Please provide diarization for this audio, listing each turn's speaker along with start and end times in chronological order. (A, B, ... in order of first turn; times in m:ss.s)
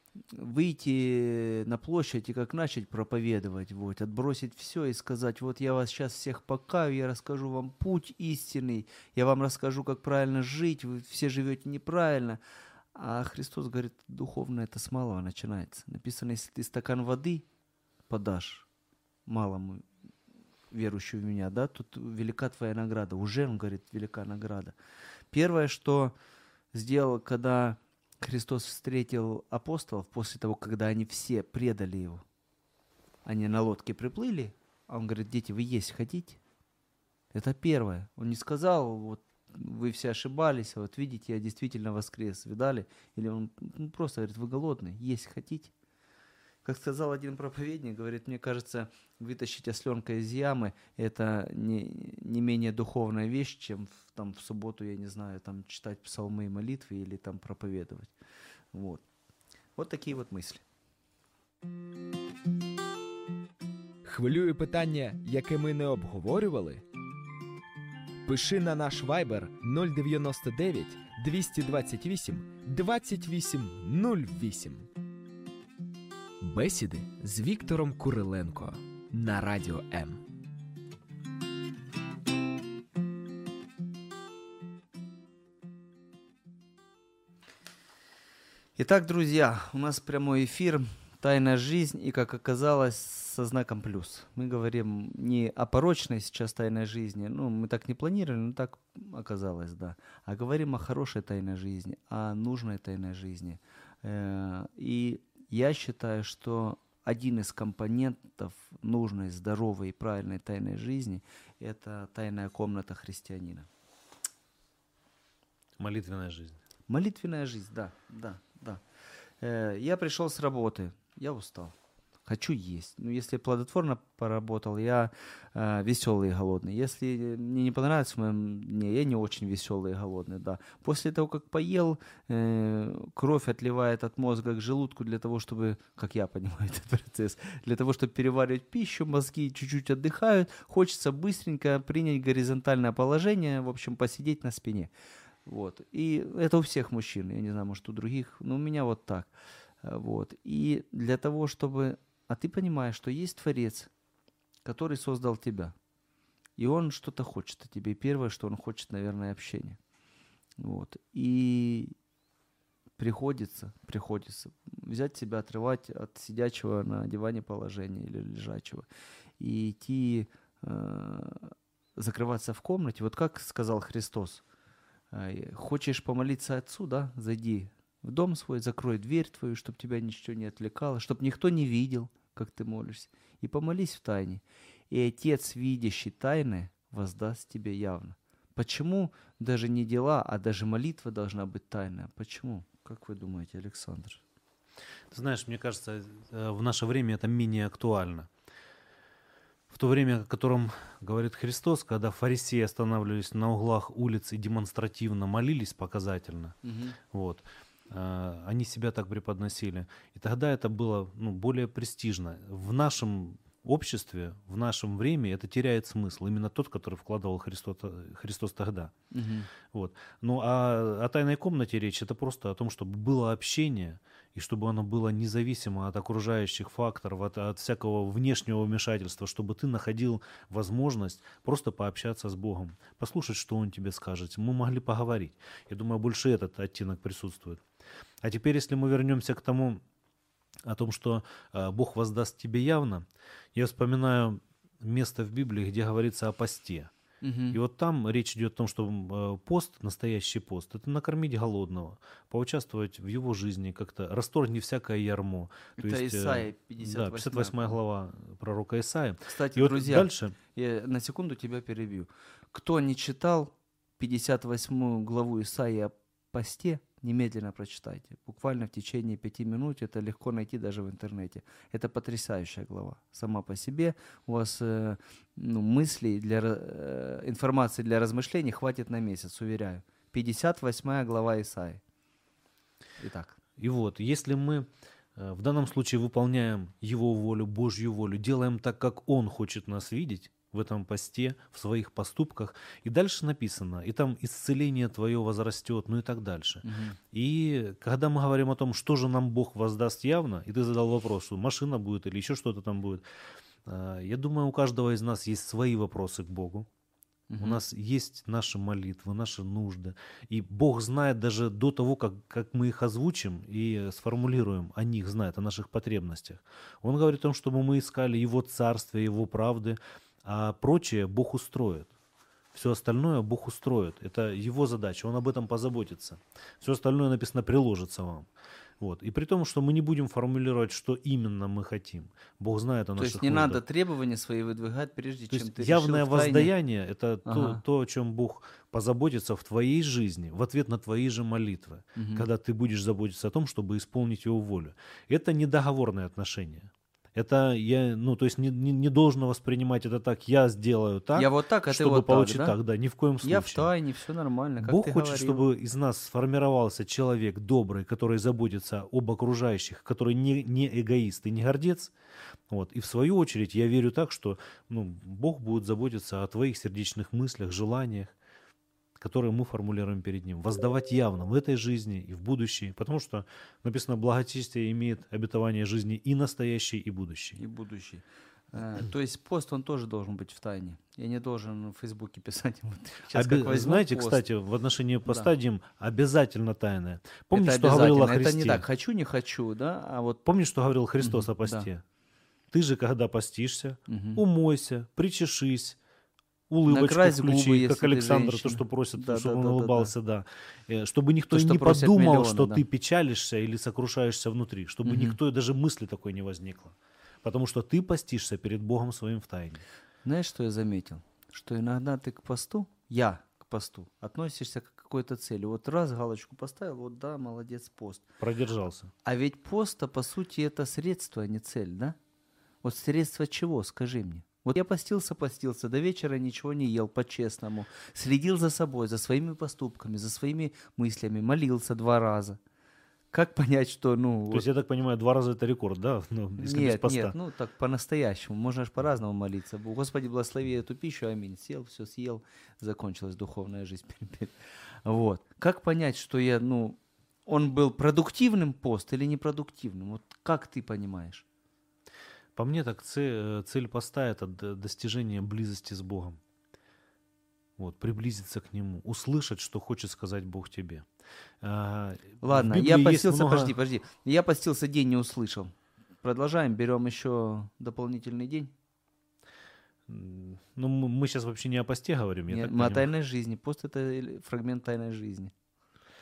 0:00.3-0:12.4 A
0:13.0-0:17.4 A
0:18.1-0:18.6 A
0:19.3-0:19.8 A
0:20.7-0:24.8 A
0:25.3-0:26.2 A
0:26.7-0:32.2 A
0:33.2-0:36.4 A
0:37.3-0:45.7 A
0:46.6-0:58.1 A
0:58.7-0:59.0 A
0:59.8-1:00.6 A
1:04.0-1:06.8 B
1:08.2-1:14.9 B
1:16.4-1:20.2 B
1:28.8-1:53.7 A
1:55.8-1:56.6 C
1:56.9-1:58.8 A
1:59.4-2:01.7 A
2:02.3-2:24.9 A
2:25.5-2:29.3 A
2:29.8-2:33.9 A
2:34.6-2:35.7 A
2:36.6-2:39.8 A
2:40.6-2:41.9 A
2:43.0-2:48.9 A
2:49.4-2:54.4 A
2:55.1-3:14.2 A
3:15.1-3:18.3 C
3:19.7-3:26.6 C
3:26.6-3:27.0 A
3:27.1-3:38.9 C
3:39.1-3:39.5 A
3:39.7-3:57.6 C
3:58.2-3:59.8 C
4:00.6-4:06.9 C
4:07.2-4:07.6 A
4:07.5-4:20.4 C
4:15.8-4:17.8 A
4:19.3-4:41.8 A
4:43.0-4:43.4 A
4:43.6-5:03.0 C
4:56.6-4:57.0 A
5:03.6-5:06.7 C
5:07.3-5:07.6 A
5:07.4-5:21.9 C
5:22.5-5:28.3 C
5:28.8-5:33.6 C
5:33.0-5:36.5 A
5:35.3-5:53.7 C
5:37.2-5:37.6 A
5:42.0-5:42.3 A
5:51.2-5:52.6 A
5:53.2-5:55.4 A
5:54.6-6:01.9 C
6:02.5-6:08.2 C
6:09.0-6:17.4 C
6:17.4-6:24.2 A
6:23.1-6:28.6 C
6:27.3-6:30.2 A
6:30.2-6:31.8 C
6:31.0-6:31.7 A
6:32.5-6:35.8 C
6:33.9-6:34.2 A
6:36.5-6:49.6 C
6:36.7-6:39.9 A
6:41.3-6:42.6 A
6:44.8-6:45.2 A
6:50.0-6:58.0 A
6:58.2-6:58.9 C
6:59.0-7:02.0 A
7:02.6-7:12.4 A
7:13.1-7:14.5 A
7:14.3-7:17.2 C
7:16.4-7:24.3 A
7:24.8-7:31.2 A
7:32.4-7:36.2 C
7:37.6-7:40.9 C
7:41.4-7:43.5 C
7:42.2-7:48.5 A
7:49.9-7:52.9 C
7:52.3-7:55.3 A